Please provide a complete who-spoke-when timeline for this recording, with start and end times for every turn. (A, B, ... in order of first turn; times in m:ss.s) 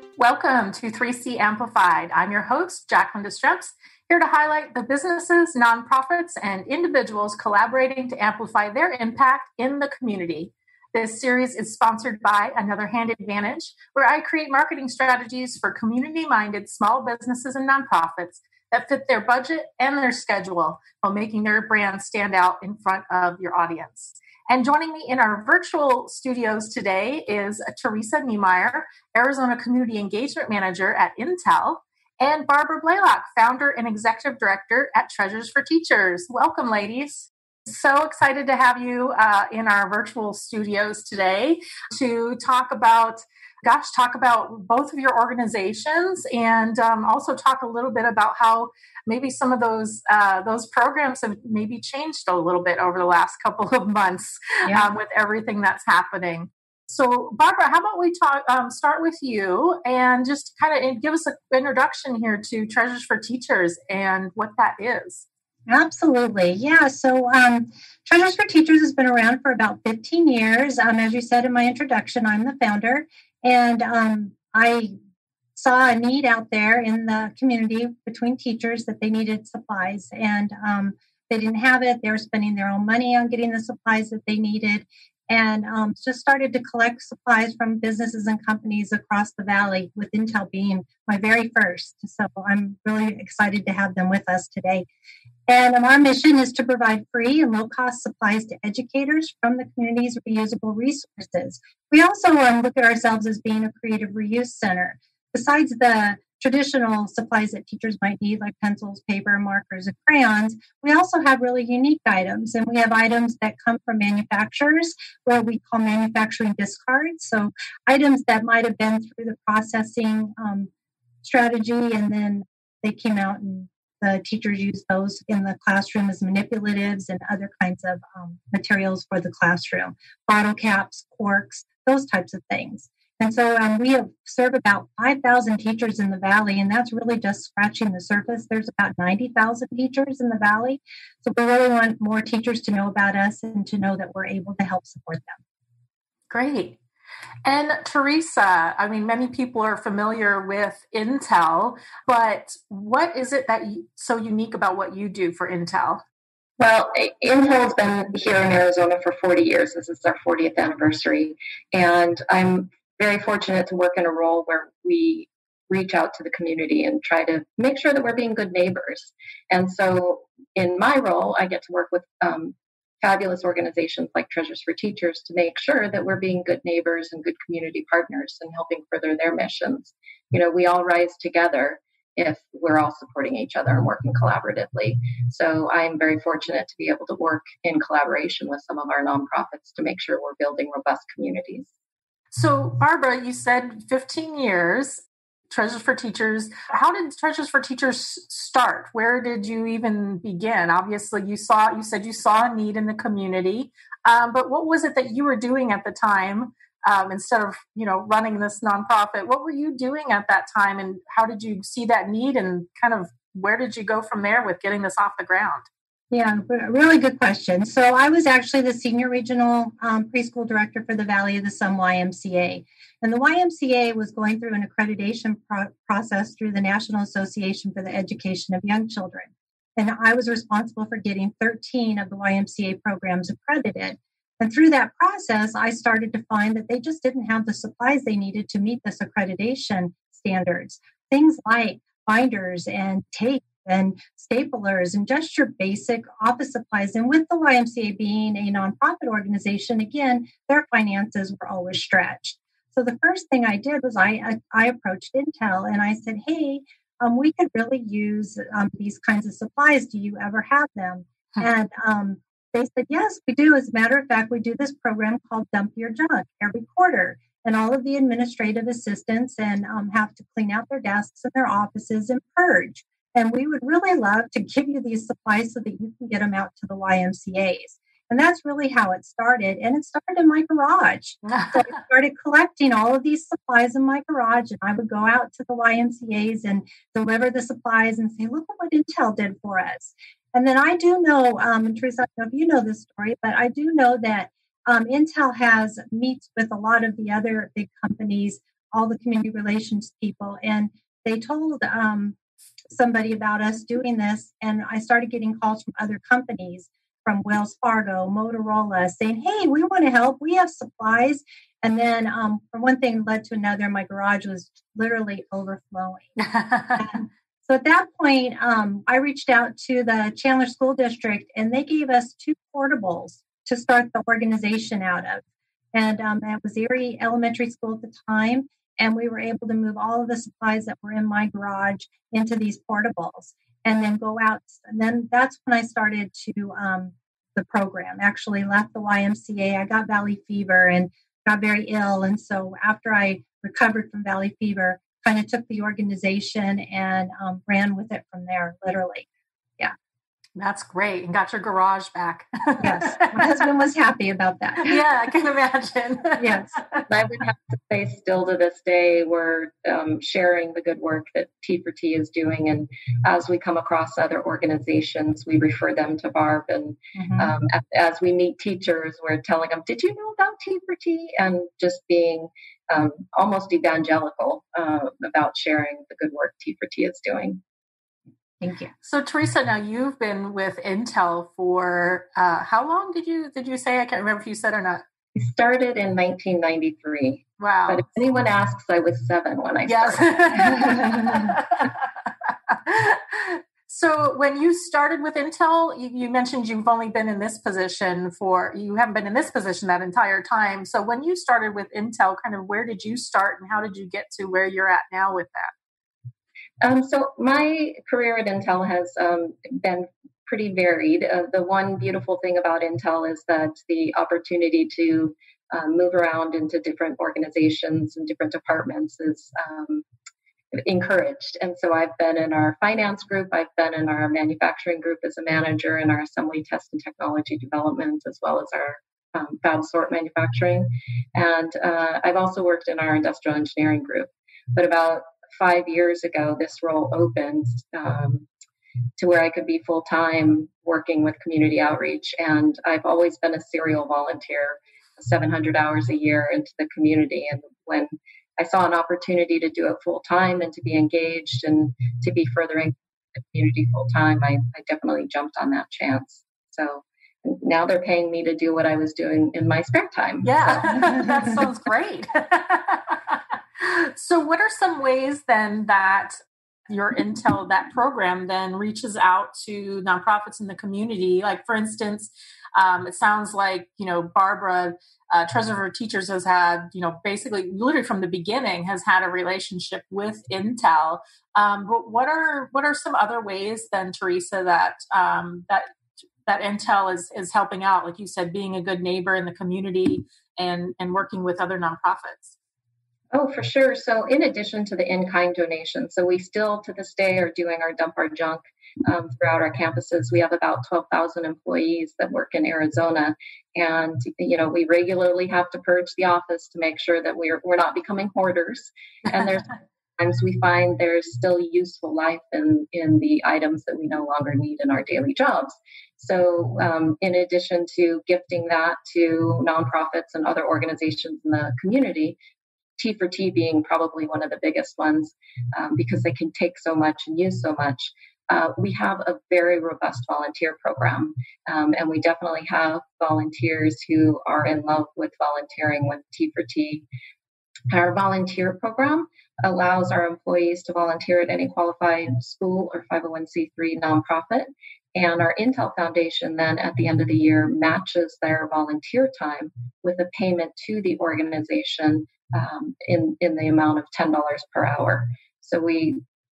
0:00.2-1:05.2 A
1:05.7-1:14.9 B
1:15.6-1:34.9 B
1:35.5-2:00.7 B
2:01.2-2:25.4 B
2:26.3-2:26.8 A
2:27.4-2:36.0 A
2:36.6-3:11.7 C
3:12.3-3:35.6 A
3:36.1-5:02.2 B
4:41.2-4:41.7 A
5:02.7-5:16.2 B
5:16.2-5:16.9 A
5:16.8-5:25.2 B
5:25.7-5:49.1 B
5:50.4-5:53.5 A
5:52.6-5:54.8 B
5:54.6-5:56.9 A
5:56.2-5:56.5 B
5:56.9-6:17.4 C
6:07.0-6:07.3 B
6:18.4-6:18.7 B
6:18.8-6:24.8 A
6:25.1-6:31.3 C
6:27.4-6:28.0 A
6:29.7-6:45.5 A
6:46.6-6:59.8 C
7:00.5-7:18.3 C
7:19.0-7:41.2 C
7:40.2-7:46.2 A
7:46.7-8:05.6 A
8:06.2-8:12.4 A
8:13.1-8:42.2 C
8:42.8-8:56.8 C
8:57.7-9:16.0 C